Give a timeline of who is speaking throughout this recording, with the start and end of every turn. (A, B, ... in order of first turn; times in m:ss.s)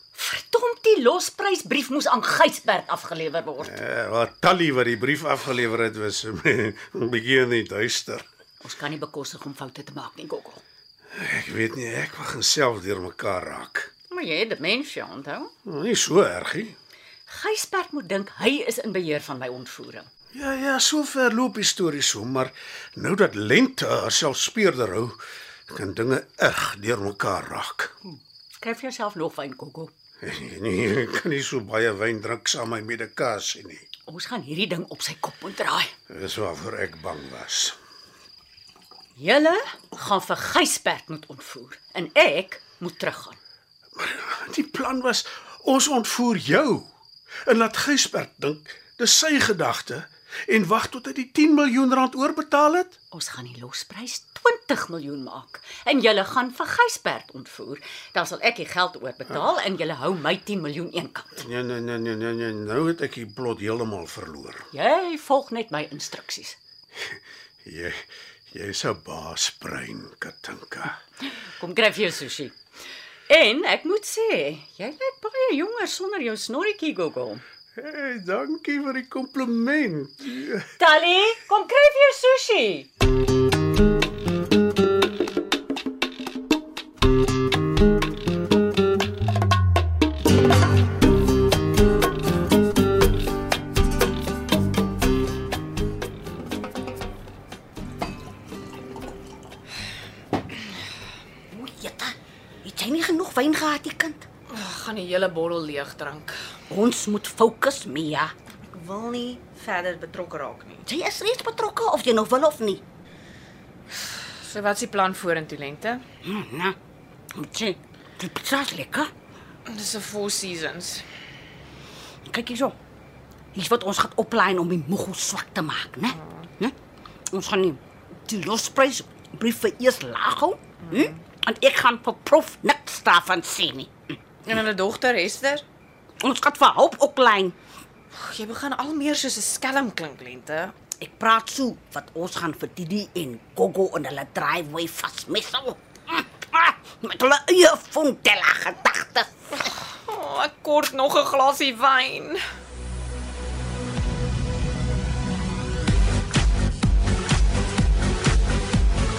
0:00.1-0:03.8 A
0:03.6-0:08.2 B
0:08.6-0:10.6 A
0:11.1-0:13.9 B
0:14.1-0:15.5 A
0:15.6-0:16.7 B
0:17.3-0:20.1 A
0:20.3-0:27.9 B
0:28.6-0:29.9 A
0:30.2-0:33.8 B
0:34.1-0:35.9 A
0:36.1-0:37.8 B
0:39.2-0:43.4 A
0:44.0-0:46.9 B
0:47.4-0:52.9 B
0:53.1-1:01.4 A
1:01.4-1:04.7 B
1:04.7-1:06.6 A
1:07.6-1:11.0 B
1:11.4-1:12.6 A
1:13.3-1:17.4 A
1:17.8-1:20.6 B
1:20.8-1:22.9 A
1:41.5-1:44.2 C
1:44.5-1:46.4 D
1:46.7-1:48.3 C
1:48.7-1:50.8 D
1:50.8-1:52.8 C
1:54.4-1:56.0 D
1:56.2-1:56.8 C
1:57.3-1:59.1 C
1:59.7-2:01.0 D
2:02.3-2:02.8 C
2:03.5-2:06.7 C
2:07.3-2:13.9 C
2:14.4-2:15.6 D
2:16.2-2:17.5 C
2:18.1-2:20.7 D
2:21.0-2:29.3 C
2:29.6-2:32.4 D